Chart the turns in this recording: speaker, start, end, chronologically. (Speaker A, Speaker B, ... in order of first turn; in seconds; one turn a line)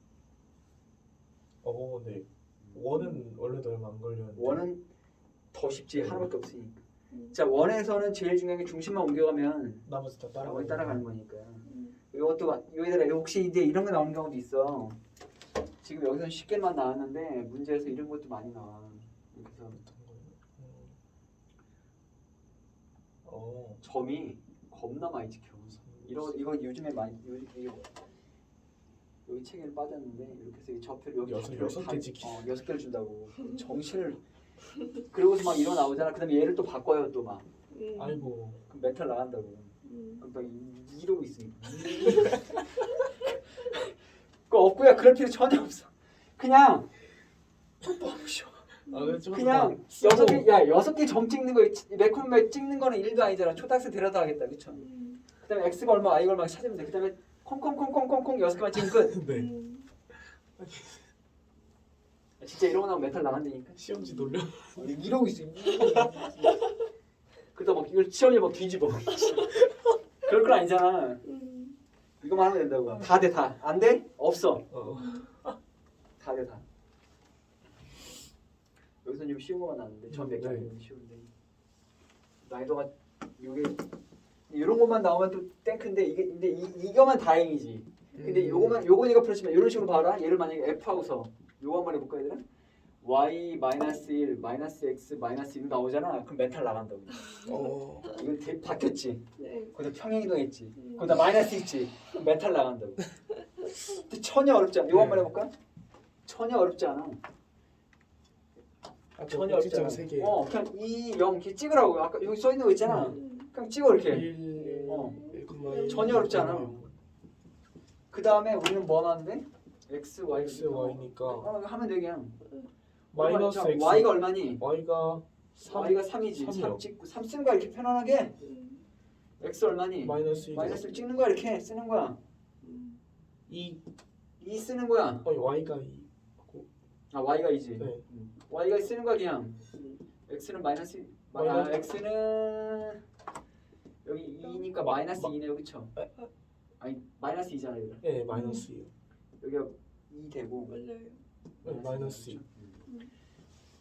Speaker A: 1.6-4.6
Speaker B: 2.6-2.9
Speaker C: 2.9-3.2
Speaker B: 4.3-4.8
Speaker B: 5.5-6.8
Speaker A: 5.9-6.3
Speaker B: 7.3-9.9
Speaker A: 9.8-11.0
Speaker B: 10.4-15.0
Speaker C: 11.7-11.9
Speaker B: 15.8-19.8
Speaker A: 19.7-21.0
Speaker A: 23.2-23.8
Speaker B: 23.8-27.9
Speaker A: 25.9-26.4
Speaker B: 29.2-34.2
Speaker A: 31.2-32.5
Speaker B: 35.1-37.5
Speaker C: 37.7-38.2
Speaker A: 38.0-38.6
Speaker B: 38.7-43.9
Speaker C: 39.8-40.2
Speaker B: 44.5-46.9
Speaker A: 47.8-50.5
Speaker B: 47.8-48.5
Speaker C: 48.9-49.2
Speaker B: 49.3-54.9
Speaker C: 54.8-55.2
Speaker B: 55.4-59.2
Speaker A: 58.7-59.5
Speaker C: 59.3-59.9
Speaker A: 60.1-61.0
Speaker B: 62.4-63.8
Speaker A: 63.8-64.9
Speaker C: 64.0-64.3
Speaker B: 64.7-66.6
Speaker B: 67.5-69.6
Speaker B: 70.2-71.2
Speaker C: 71.2-71.8
Speaker B: 72.2-74.7
Speaker A: 74.7-75.6
Speaker C: 74.9-75.2
Speaker B: 76.2-76.6
Speaker B: 79.0-81.3
Speaker A: 80.1-80.7
Speaker B: 82.4-83.8
Speaker B: 84.5-92.4
Speaker A: 88.1-88.8
Speaker B: 93.0-97.5
Speaker A: 97.4-98.1
Speaker B: 98.0-103.1
Speaker C: 99.4-99.7
Speaker C: 100.8-101.2
Speaker B: 103.6-105.5
Speaker A: 104.9-105.3
Speaker B: 106.2-107.2
Speaker A: 109.2-110.4
Speaker B: 109.2-115.2
Speaker A: 112.8-113.2
Speaker C: 113.1-113.5
Speaker A: 114.0-116.9
Speaker C: 114.6-116.3
Speaker B: 115.8-116.8
Speaker B: 118.1-122.4
Speaker A: 120.3-121.5
Speaker B: 123.1-124.6
Speaker A: 123.1-126.8
Speaker B: 125.6-128.3
Speaker C: 128.4-128.8
Speaker B: 129.4-132.2
Speaker A: 130.0-130.9
Speaker C: 132.6-133.0
Speaker A: 133.5-133.8
Speaker B: 134.4-135.3
Speaker A: 135.2-136.7
Speaker B: 137.1-139.6
Speaker B: 140.3-143.0
Speaker A: 141.3-141.8
Speaker B: 144.0-145.9
Speaker A: 144.8-145.3
Speaker B: 146.8-148.0
Speaker A: 148.0-148.9
Speaker C: 148.3-148.7
Speaker B: 149.4-150.8
Speaker C: 150.7-151.2
Speaker B: 151.6-152.8
Speaker A: 151.6-152.4